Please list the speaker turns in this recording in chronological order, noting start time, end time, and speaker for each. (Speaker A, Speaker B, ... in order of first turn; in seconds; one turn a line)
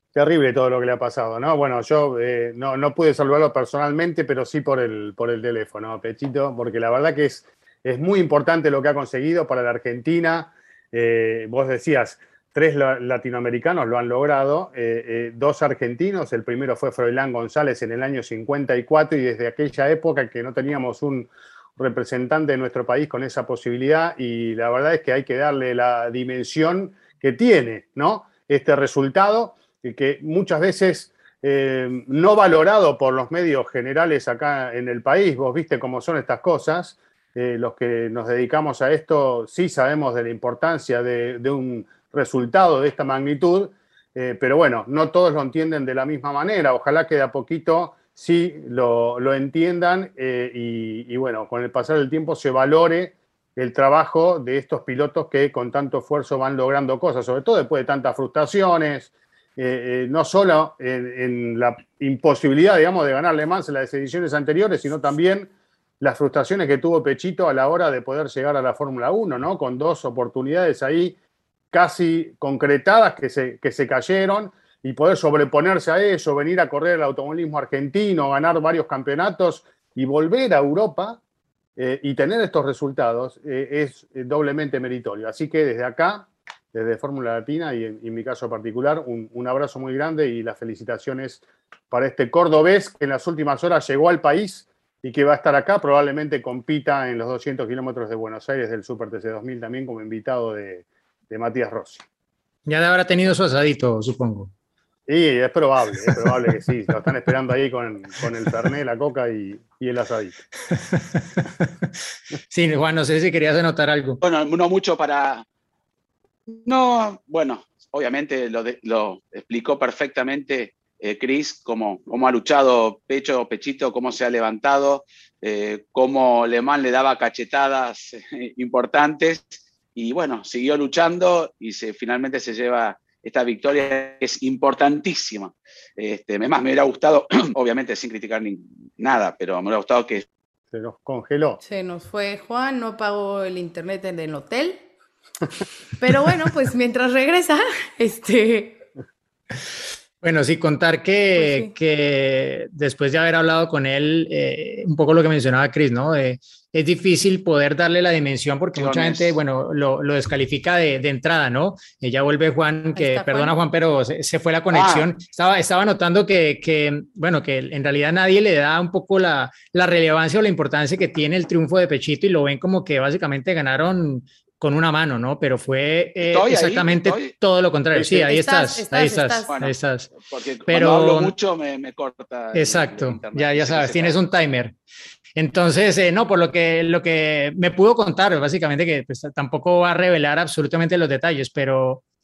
Speaker A: 0.1-71.2
Speaker A: 71.7-81.2
Speaker A: 81.8-102.0
Speaker B: 102.7-104.5
Speaker A: 105.1-110.4
Speaker B: 110.7-111.7
Speaker B: 112.5-114.2
Speaker C: 114.2-115.5
Speaker C: 116.5-140.2
Speaker A: 140.7-141.6
Speaker D: 141.6-144.8
Speaker D: 146.0-148.8
Speaker B: 150.2-180.1
Speaker D: 151.4-151.7
Speaker C: 158.8-159.4
Speaker D: 163.0-163.6
Speaker C: 164.7-165.1
Speaker C: 176.2-177.3
Speaker A: 177.9-178.2
Speaker D: 178.2-179.5
Speaker C: 179.5-184.2
Speaker B: 180.7-181.3
Speaker B: 182.6-184.7
Speaker B: 185.4-192.0